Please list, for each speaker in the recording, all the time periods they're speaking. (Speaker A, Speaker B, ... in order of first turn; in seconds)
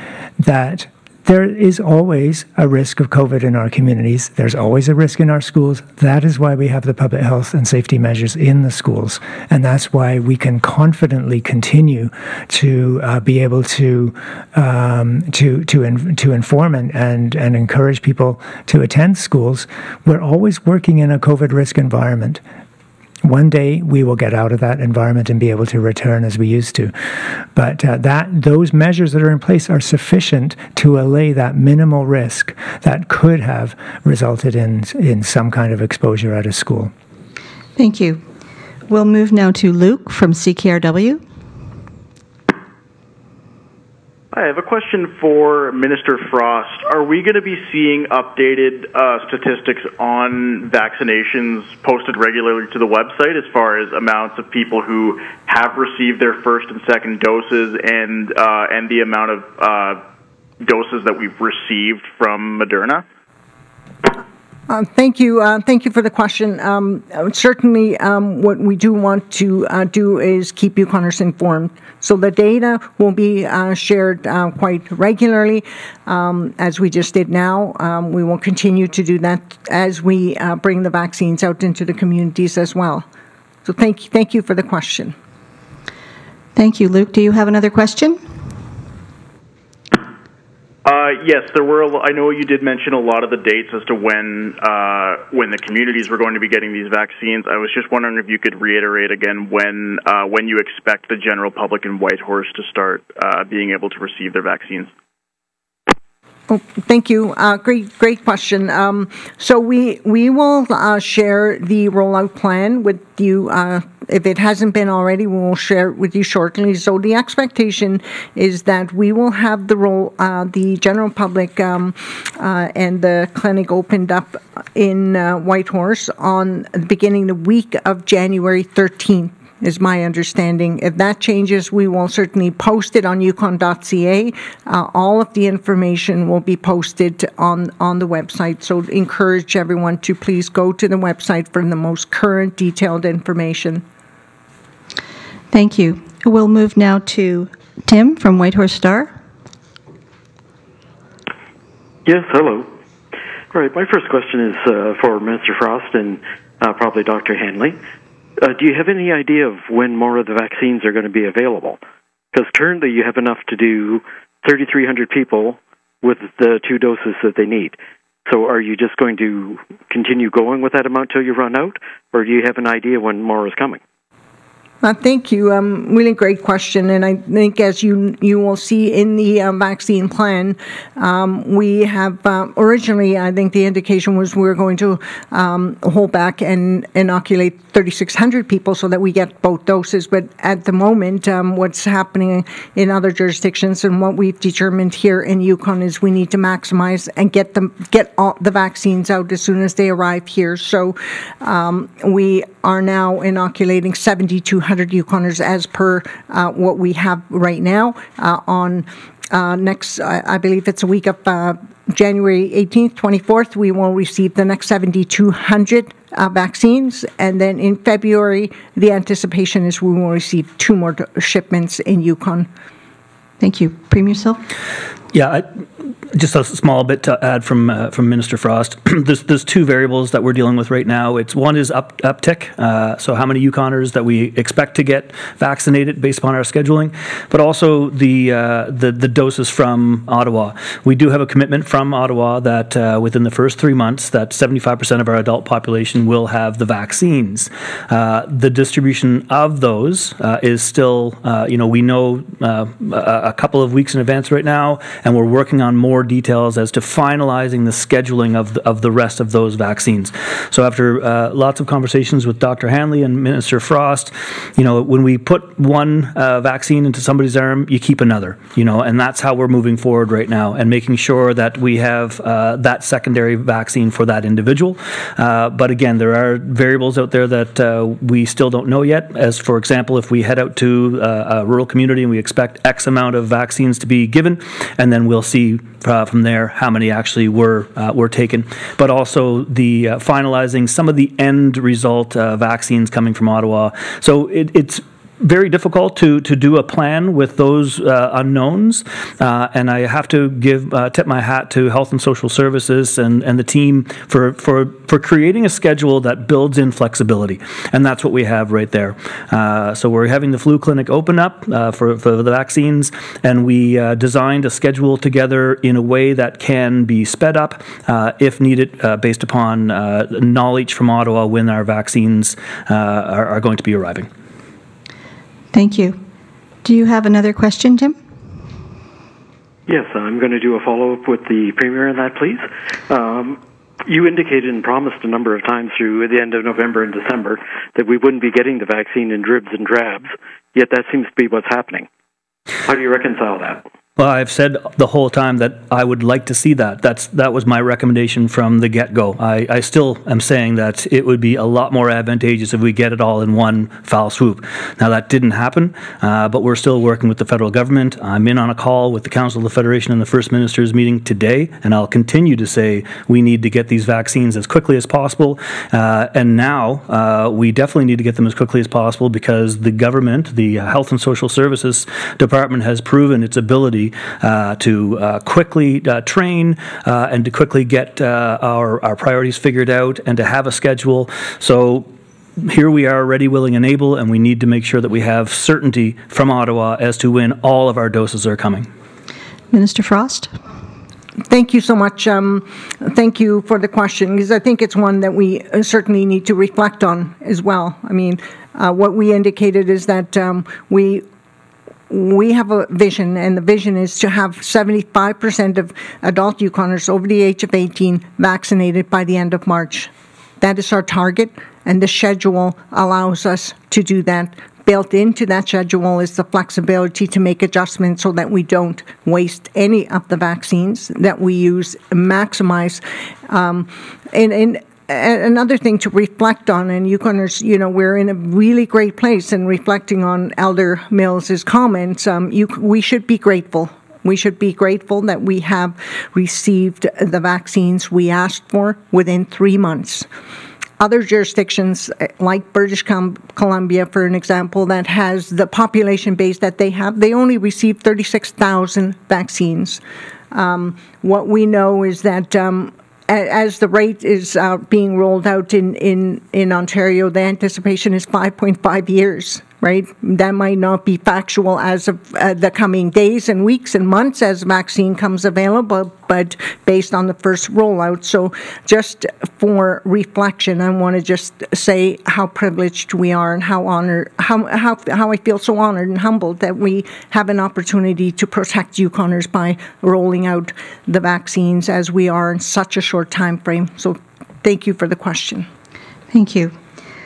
Speaker A: 0.4-22.4, 23.2-36.9
Speaker B: 37.8-38.2, 38.9-41.2, 86.5-88.2, 145.5-149.1, 223.4-224.4, 325.5-326.0, 326.6-327.9, 389.5-390.3, 486.1-486.6
Speaker C: 44.3-60.0, 60.6-63.0, 90.8-104.9
Speaker D: 64.7-83.0, 83.6-85.1, 106.5-143.8, 174.8-222.5, 391.3-401.0, 401.9-409.9, 410.4-440.1, 440.8-449.8, 450.3-485.5
Speaker E: 152.0-152.7, 153.5-157.8, 158.4-161.8, 162.3-173.8, 329.7-341.9, 342.6-343.6
Speaker F: 225.1-225.5, 226.1-324.1, 344.0-388.7